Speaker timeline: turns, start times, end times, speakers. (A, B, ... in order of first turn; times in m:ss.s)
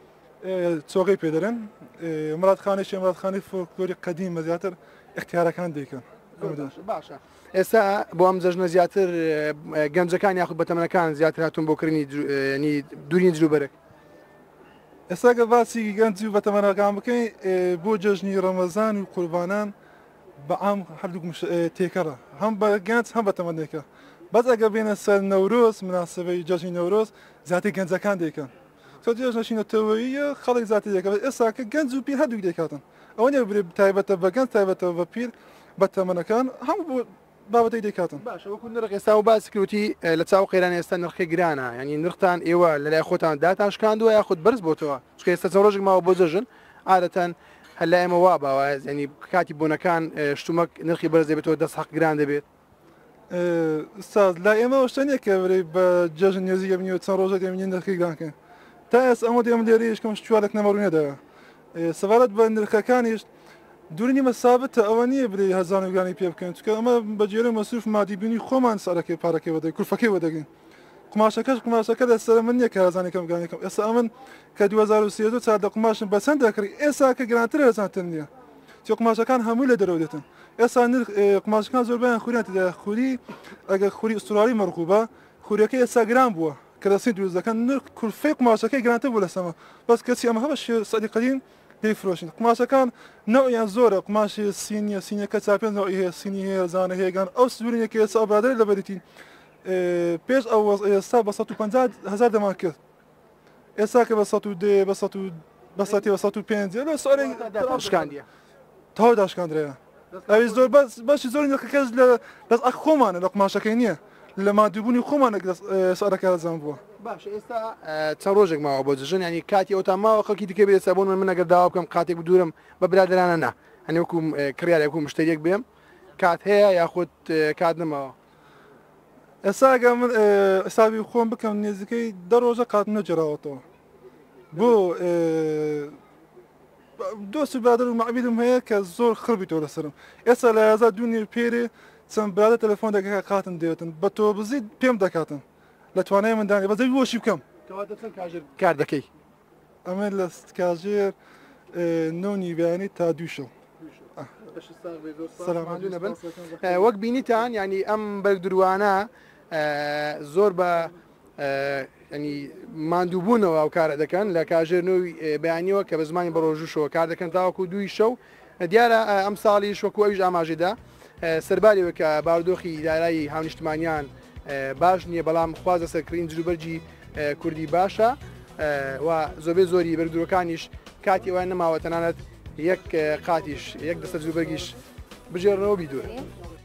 0:00.4-0:06.7 A
0:06.4-0:13.7 B
0:15.1-0:19.7 A
0:20.4-0:38.2 A
0:38.2-0:52.4 B
0:53.3-0:58.3 A
0:58.9-1:01.2 A
1:01.8-1:03.3 A
1:03.9-1:10.5 A
1:11.1-1:18.3 A
1:18.8-1:39.0 A
1:39.6-1:42.8 A
1:43.8-1:48.1 A
1:47.1-1:48.3 B
1:49.0-1:56.8 A
1:50.1-1:50.7 B
1:57.0-2:05.6 B
2:06.2-2:08.2 B
2:09.4-2:13.6 A
2:14.5-2:16.0 A
2:17.0-2:25.4 A
2:26.0-2:27.4 A
2:27.7-2:29.1 B
2:29.8-2:31.2 A
2:31.7-2:33.5 A
2:33.8-3:04.8 B
2:35.4-2:36.9 A
3:05.3-3:06.3 B